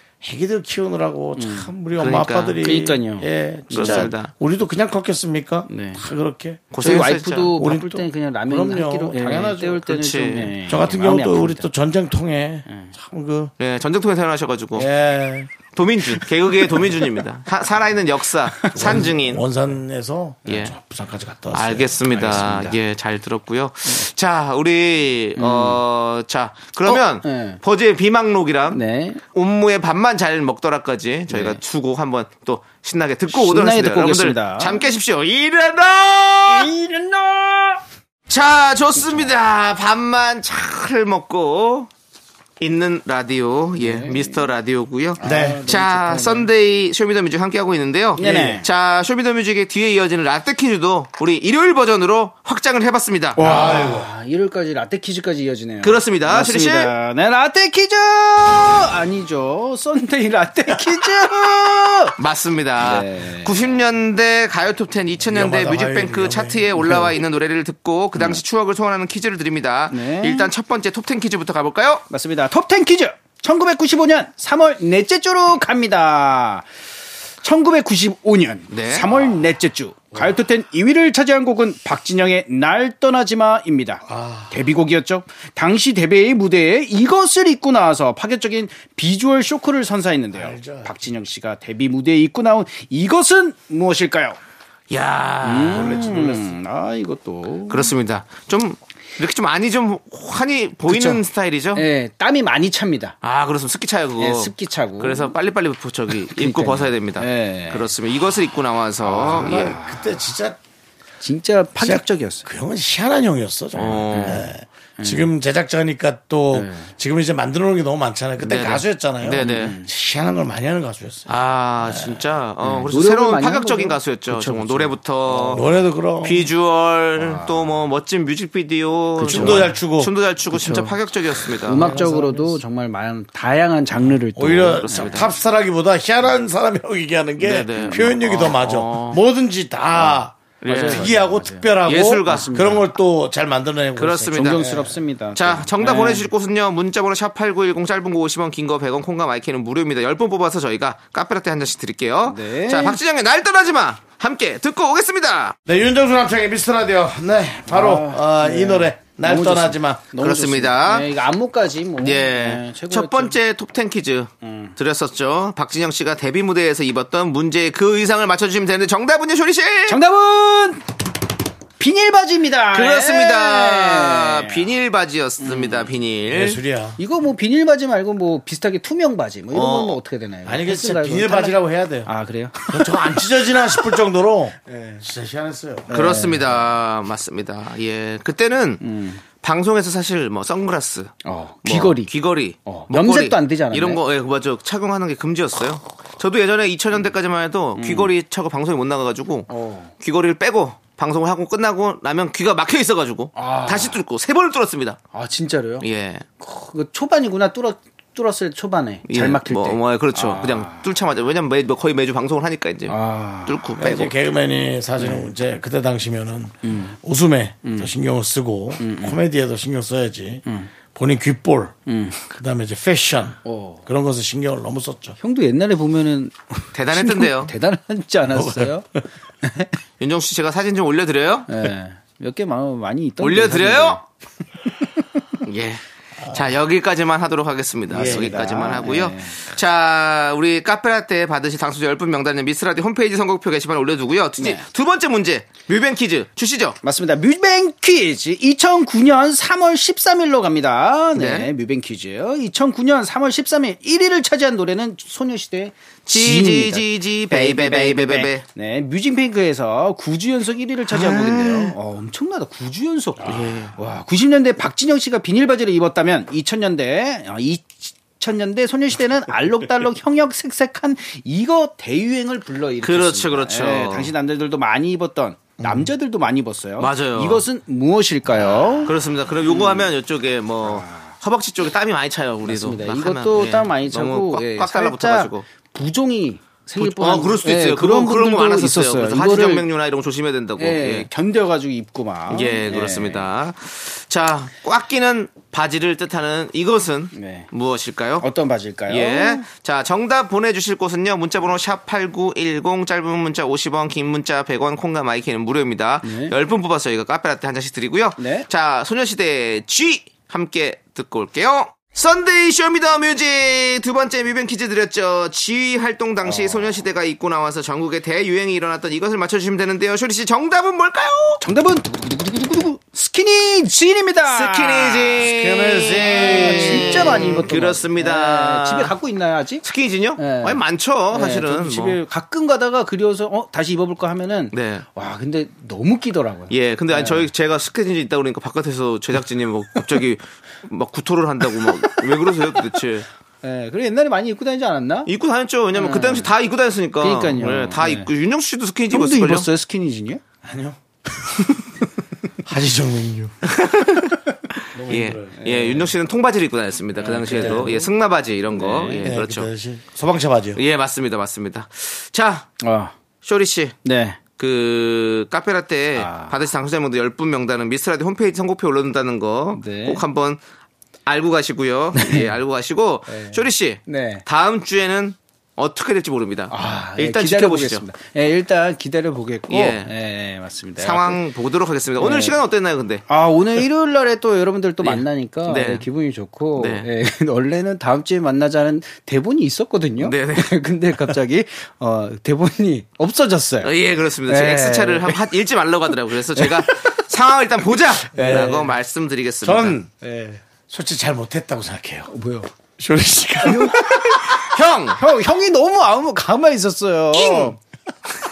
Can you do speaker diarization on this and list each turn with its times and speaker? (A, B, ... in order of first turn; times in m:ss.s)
0:00.2-0:10.0 A
0:01.4-0:01.7 B
0:02.0-0:02.6 C
0:02.6-0:04.1 B
0:03.7-0:04.3 C
0:05.7-0:06.0 B
0:06.7-0:07.6 C
0:06.8-0:11.7 B
0:09.8-0:10.5 C
0:10.7-0:13.5 A
0:12.7-0:12.9 B
0:13.6-0:14.9 C
0:14.7-0:15.5 A
0:15.7-0:19.4 C
0:18.5-0:19.0 B
0:18.7-0:22.8 A
0:20.5-0:20.8 C
0:21.5-0:36.7 C
0:25.4-0:25.8 B
0:26.9-0:27.6 B
0:28.7-0:29.2 B
0:31.3-0:31.6 B
0:33.3-0:34.8 B
0:36.5-0:37.8 B
0:38.3-0:41.9 C
0:42.6-0:53.6 C
0:43.8-0:44.5 B
0:45.2-0:46.5 B
0:45.2-0:45.6 A
0:48.2-0:48.7 B
0:48.2-0:48.6 A
0:53.4-1:02.2 B
0:53.4-0:54.1 A
0:55.8-0:56.9 C
1:02.2-1:12.0 C
1:02.8-1:03.8 B
1:05.2-1:07.1 A
1:09.9-1:10.5 B
1:12.1-1:16.7 B
1:17.4-1:34.4 B
1:18.7-1:19.2 C
1:24.1-1:24.6 A
1:30.3-1:31.0 A
1:34.9-1:36.3 C
1:35.4-1:37.9 B
1:35.8-1:36.4 A
1:37.7-1:41.8 C
1:40.9-1:41.2 B
1:41.8-1:43.2 B
1:43.2-1:49.8 C
1:44.2-1:45.4 B
1:46.2-1:47.9 B
1:49.1-1:50.6 A
1:49.1-1:50.2 B
1:51.2-1:52.5 B
1:51.8-2:02.2 A
1:53.7-1:54.5 C
1:54.1-1:55.3 B
1:56.5-1:56.9 B
1:58.4-1:59.7 C
1:59.4-1:59.9 B
2:01.3-2:05.7 C
2:02.6-2:05.9 B
2:05.5-2:06.5 A
2:06.2-2:12.0 C
2:07.2-2:07.8 B
2:09.2-2:09.8 B
2:09.3-2:10.1 A
2:10.5-2:15.3 B
2:11.7-2:12.6 A
2:14.0-2:25.0 A
2:14.7-2:15.3 C
2:17.4-2:19.2 C
2:17.8-2:18.2 B
2:20.0-2:22.8 B
2:20.6-2:21.2 C
2:21.8-2:22.7 C
2:24.0-2:24.7 C
2:24.3-2:26.3 B
2:25.4-2:35.6 C
2:32.3-2:33.0 B
2:35.7-2:40.1 A
2:37.7-2:43.4 B
2:40.2-2:41.1 C
2:42.0-2:50.0 C
2:44.4-2:44.7 B
2:49.9-2:50.8 B
2:51.8-2:54.7 B
2:52.7-2:56.6 C
2:55.4-2:55.9 B
2:56.3-2:57.0 A
2:57.0-3:03.0 B
2:59.5-3:00.0 C
3:00.4-3:02.1 A
3:02.6-3:05.9 A
3:05.9-3:06.6 B
3:05.9-3:08.8 C
3:08.8-3:09.2 B
3:09.4-3:25.0 C
3:11.2-3:12.1 B
3:12.6-3:14.0 B
3:17.8-3:18.1 B
3:19.5-3:19.9 B
3:23.4-3:24.0 B
3:25.1-3:25.9 B
3:25.8-3:26.2 C
3:26.4-3:30.9 B
3:29.1-3:34.2 C
3:32.9-3:33.7 B
3:33.8-3:45.2 A
3:35.0-3:35.3 B
3:36.6-3:37.0 B
3:37.6-3:37.9 B
3:38.8-3:39.2 B
3:40.4-3:40.7 B
3:41.9-3:42.2 B
3:43.4-3:43.8 B
3:45.2-3:48.9 B
3:46.7-3:47.5 C
3:48.3-3:48.8 A
3:49.4-3:49.8 B
3:50.0-3:51.7 C
3:51.5-3:54.0 B
3:53.2-3:54.0 C
3:55.0-3:55.4 B
3:55.4-4:06.8 C
3:56.2-3:56.5 A
3:57.9-3:59.4 B
3:57.9-3:58.7 A
4:04.4-4:04.7 B
4:06.8-4:39.9 B
4:11.2-4:11.5 C
4:16.1-4:18.4 C
4:20.9-4:21.7 C
4:23.2-4:23.8 C
4:32.8-4:34.1 C
4:35.6-4:35.9 A
4:36.8-4:37.4 C
4:38.3-4:45.4 C
4:40.6-4:41.2 B
4:42.4-4:49.7 B
4:46.8-4:51.1 C
4:50.6-4:53.3 B
4:52.3-4:58.3 C
4:57.1-4:57.5 B
4:58.2-4:59.4 B
4:58.9-5:21.4 C
5:06.0-5:06.3 B
5:08.2-5:08.5 B
5:16.2-5:16.8 B
5:21.4-5:29.6 B
5:24.3-5:28.9 C
5:25.3-5:27.4 A
5:29.6-5:32.0 C
5:30.2-5:30.6 B
5:31.1-5:37.3 B
5:34.5-5:34.9 C
5:36.5-5:43.1 C
5:43.4-5:45.1 B
5:45.0-5:49.5 C
5:45.7-5:46.3 B
5:47.0-5:48.1 B
5:48.9-5:50.2 B
5:50.4-5:51.6 A
5:52.4-5:53.5 A
5:53.5-5:54.2 C
5:54.7-5:55.4 A
5:54.9-5:59.5 C
5:55.4-5:55.9 B
5:57.0-5:57.9 B
5:58.5-5:59.1 B
5:59.0-6:00.6 A
6:00.6-6:02.5 C
6:02.6-6:03.0 B
6:03.2-6:03.8 C
6:03.8-6:04.2 B
6:04.4-6:10.4 C
6:05.9-6:06.4 B
6:09.5-6:10.0 B
6:11.1-6:17.8 C
6:12.0-6:12.3 B
6:13.1-6:14.2 B
6:16.5-6:21.2 B
6:19.5-6:19.9 C
6:20.8-6:23.0 C
6:22.0-6:22.4 B
6:23.1-6:33.7 B
6:24.8-6:25.8 C
6:26.6-6:26.9 C
6:30.0-6:30.5 C
6:33.6-6:39.8 C
6:34.2-6:35.3 B
6:36.4-6:36.9 B
6:38.2-6:38.6 A
6:38.2-6:38.7 B
6:39.4-6:39.9 A
6:40.0-6:40.4 B
6:40.6-6:42.1 A
6:42.1-6:42.5 B
6:42.8-6:44.0 A
6:43.4-6:47.6 B
6:43.9-6:45.0 C